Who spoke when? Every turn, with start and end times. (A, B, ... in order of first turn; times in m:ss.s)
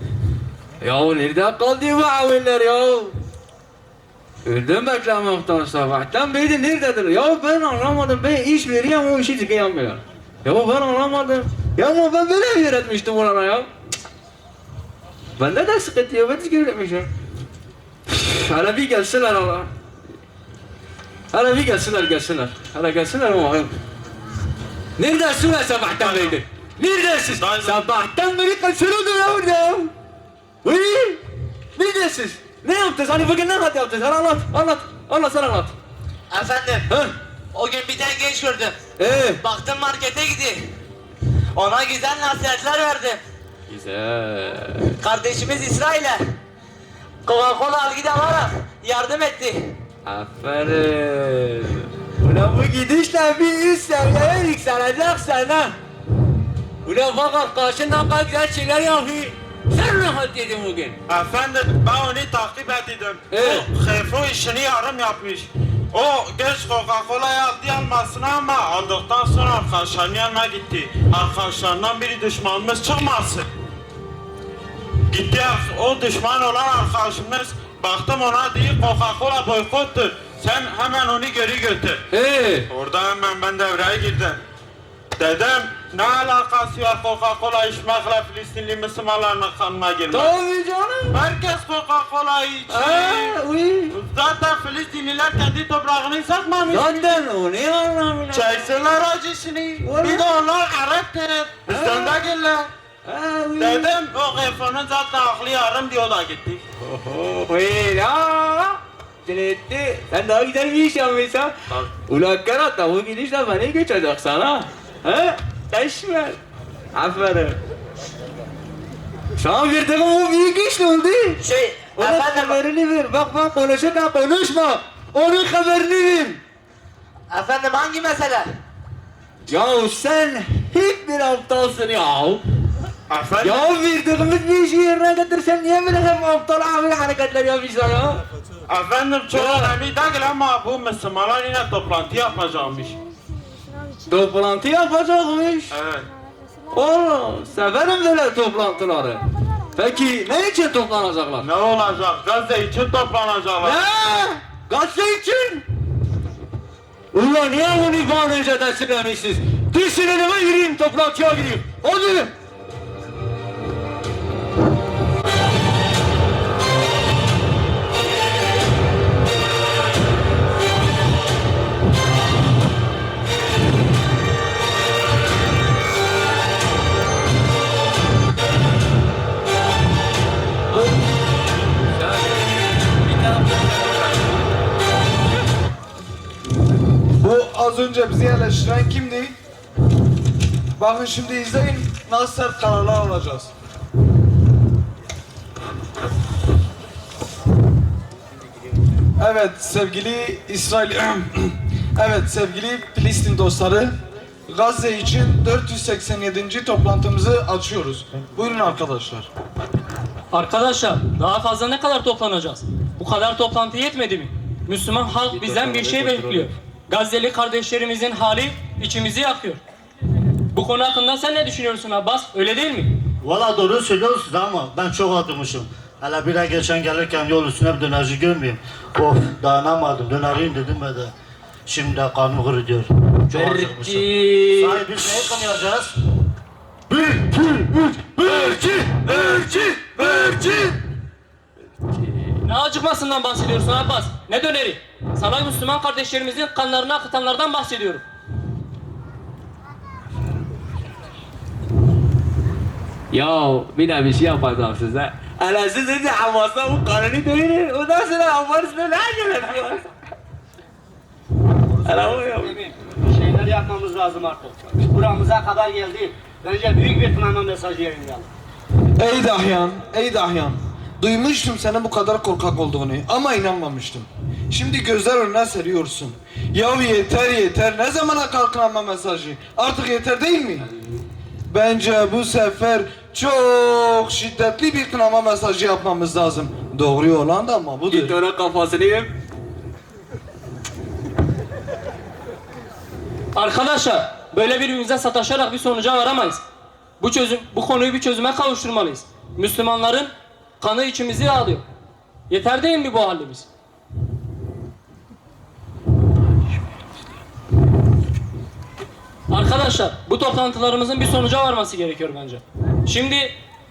0:00.8-0:03.2 A
0:04.4-0:13.7 A
0:15.4-0:17.1 A
0:18.1-0:19.7 A
0:21.3-0:23.7 A
0:25.0-0:29.9 A
0:25.9-0:26.4 B
0:27.3-0:27.8 B
0:30.6-0:31.2 A
0:31.8-0:35.8 A
0:36.3-0:36.9 C
0:36.9-0:37.1 A
0:37.5-0:38.8 C
0:39.0-0:39.4 A
0:39.4-0:40.7 C
0:41.6-0:43.2 C
0:43.7-0:45.0 A
0:45.0-0:46.4 C
0:47.3-0:49.8 C
0:50.0-0:55.8 A
0:56.8-1:01.0 A
1:01.1-1:13.5 B
1:03.3-1:03.7 A
1:15.1-1:22.0 B
1:22.1-1:22.7 A
1:22.7-1:24.4 B
1:25.2-1:30.4 B
1:30.1-1:31.2 A
1:31.1-1:37.2 B
1:32.7-1:34.0 A
1:36.7-1:38.8 A
1:38.3-1:42.7 B
1:39.8-1:40.3 A
1:41.7-1:42.2 A
1:43.0-1:43.9 A
1:43.6-1:46.6 B
1:46.8-1:56.4 A
1:56.9-1:57.6 A
1:59.4-2:06.4 A
2:01.4-2:02.6 C
2:07.3-2:08.5 C
2:09.5-2:12.4 A
2:13.1-2:13.8 B
2:13.4-2:18.2 A
2:18.7-2:23.0 B
2:19.3-2:19.8 A
2:24.1-2:25.8 A
2:25.7-2:26.1 B
2:26.7-2:31.5 A
2:31.4-2:33.8 B
2:33.6-2:35.6 A
2:37.1-2:42.3 A
3:02.0-3:02.3 A
3:03.0-3:03.7 A
3:07.2-3:09.4 D
3:10.8-3:13.5 D
3:19.2-3:24.0 D
3:24.5-3:29.3 D
3:30.3-3:39.6 E
3:35.3-3:36.5 A
3:40.5-3:42.9 E
3:43.2-3:51.1 F
3:51.7-3:55.9 F
3:53.3-3:54.8 A
3:56.9-4:00.7 F
3:58.3-4:00.8 A
4:02.4-4:08.0 E
4:13.1-4:19.9 A
4:21.8-4:28.3 G
4:21.8-4:22.6 A
4:29.0-4:40.7 D
4:41.5-4:48.2 D
4:47.8-4:49.1 A
4:53.4-4:56.4 E
4:57.0-5:01.6 E
5:02.3-5:03.5 E
5:09.3-5:13.3 E